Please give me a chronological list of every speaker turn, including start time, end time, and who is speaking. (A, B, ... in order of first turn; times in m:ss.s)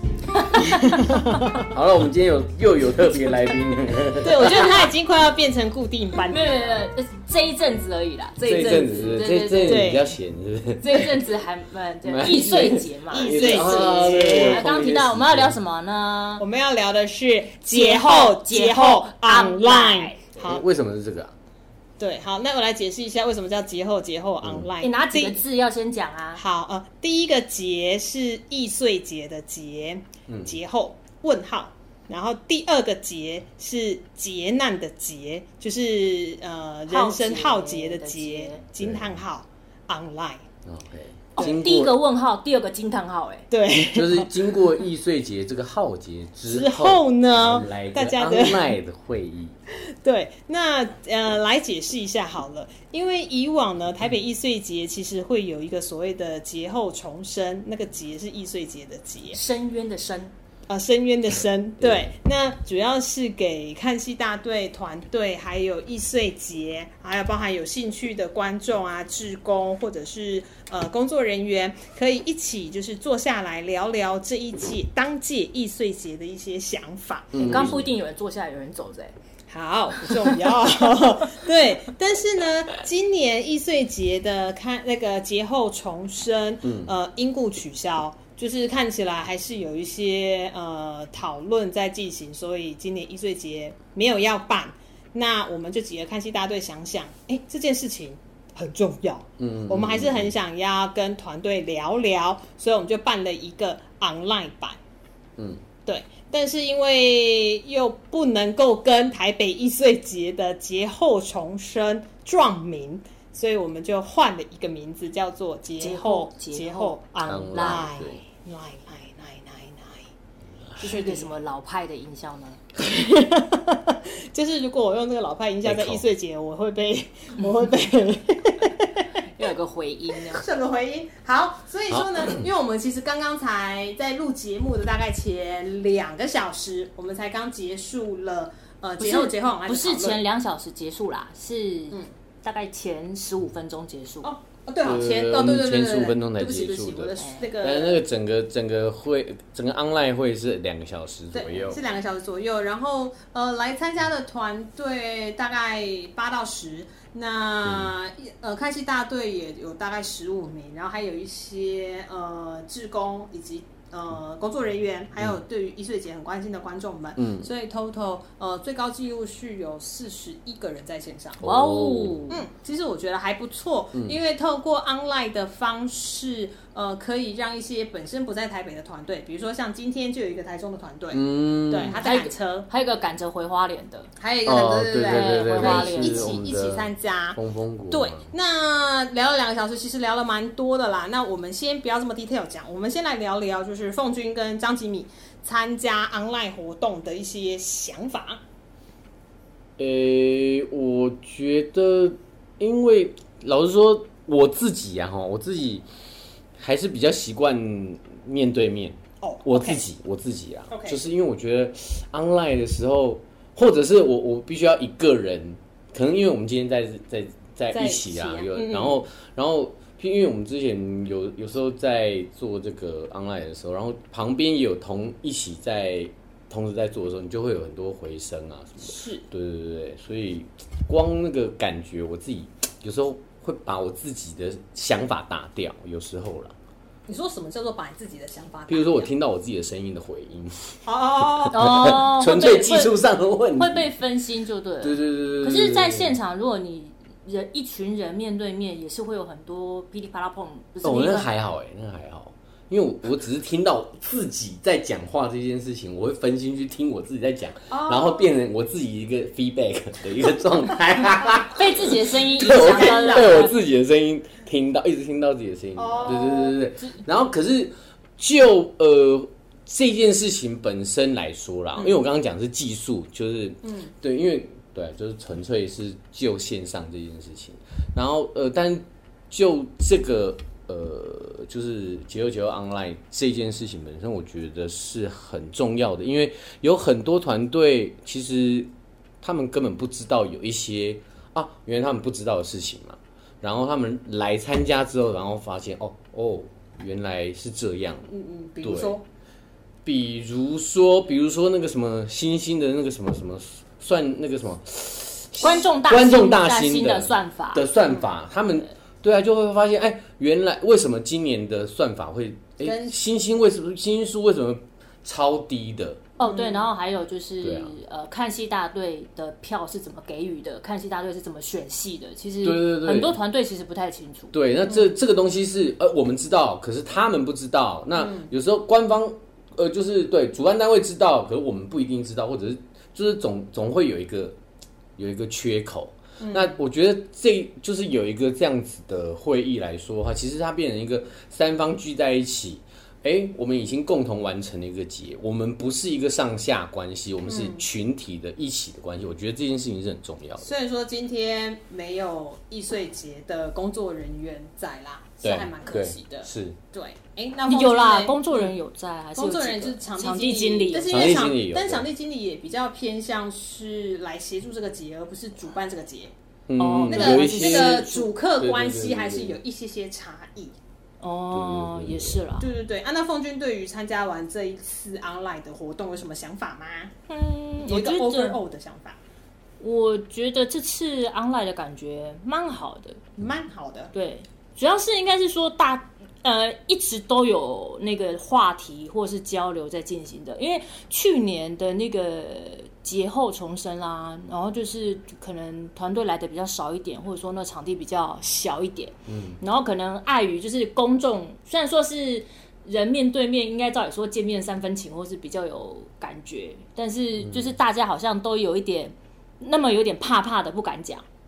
0:00.4-0:01.7 A
0:01.7-0:04.8 B
0:04.1-0:06.8 A
0:06.3-0:09.9 C
0:08.4-0:11.1 B
0:09.6-0:10.1 A
0:10.8-0:16.4 C
0:12.0-0:15.6 B
0:13.1-0:14.7 A
0:16.4-0:20.6 A
0:17.7-0:20.3 C
0:20.4-0:21.3 B
0:22.0-0:25.4 A
0:24.4-0:24.7 B
0:24.8-0:26.4 C
0:26.4-0:40.4 A
0:30.3-0:30.6 B
0:36.9-0:38.6 C
0:38.8-0:39.2 B
0:40.6-0:42.0 B
0:41.4-0:43.5 C
0:43.5-0:44.5 A
0:43.7-0:49.6 B
0:46.5-0:48.8 A
0:49.9-0:59.4 A
0:59.3-1:00.3 C
1:00.7-1:17.8 A
1:17.3-1:17.9 B
1:17.4-1:19.2 C
1:19.5-1:44.8 A
1:26.6-1:26.9 B
1:39.4-1:40.3 B
1:45.4-1:45.6 B
1:45.9-2:00.1 A
1:55.8-1:57.9 C
1:57.3-1:58.2 B
2:00.8-2:02.6 C
2:00.8-2:01.3 A
2:02.8-2:09.1 A
2:05.6-2:06.0 B
2:09.4-2:10.4 C
2:10.3-2:20.2 A
2:12.0-2:12.4 B
2:19.0-2:24.3 C
2:24.2-2:28.0 A
2:24.8-2:31.8 B
2:27.2-2:27.5 C
2:31.3-2:51.4 A
2:47.2-2:47.5 B
2:51.4-2:52.2 B
2:51.4-2:52.4 C
2:52.3-3:02.7 A
3:01.1-3:02.0 B
3:01.9-3:04.1 C
3:04.2-3:18.4 A
3:04.5-3:08.3 B
3:05.1-3:06.4 C
3:19.8-3:25.9 B
3:26.6-3:56.6 B
3:29.2-3:29.8 A
3:30.7-3:31.0 A
3:37.7-3:39.0 A
3:48.8-3:49.2 A
3:57.1-3:59.1 A
3:58.7-4:03.9 B
4:00.8-4:02.6 A
4:01.5-4:03.0 C
4:03.6-4:11.3 C
4:04.8-4:06.2 B
4:10.8-4:58.1 B
4:17.7-4:18.3 A
4:21.6-4:23.6 C
4:22.4-4:23.5 A
4:25.8-4:26.6 A
4:33.6-4:33.9 A
4:58.1-4:59.0 A
4:58.6-4:59.0 B
4:59.8-5:16.1 B
5:05.4-5:07.7 C
5:12.6-5:13.0 A
5:16.2-5:24.3 C
5:16.2-5:16.7 A
5:17.4-5:17.7 B
5:22.4-5:23.2 B
5:24.3-5:34.4 B
5:24.7-5:25.0 A
5:28.0-5:28.3 A
5:35.0-5:50.5 B
5:36.2-5:36.6 A
5:47.3-5:47.7 A
5:50.4-5:58.6 A
5:55.2-5:56.6 B
5:57.5-6:01.2 C
5:59.2-6:06.1 A
6:00.9-6:01.9 B
6:06.5-6:09.4 B
6:06.6-6:08.1 C
6:06.9-6:10.6 A
6:11.0-6:12.5 C
6:11.3-6:12.2 B
6:12.4-6:16.9 A
6:17.1-6:18.4 C
6:17.6-6:19.0 A
6:19.6-6:23.0 C
6:23.2-6:23.9 A
6:23.9-6:51.0 C
6:39.1-6:39.4 B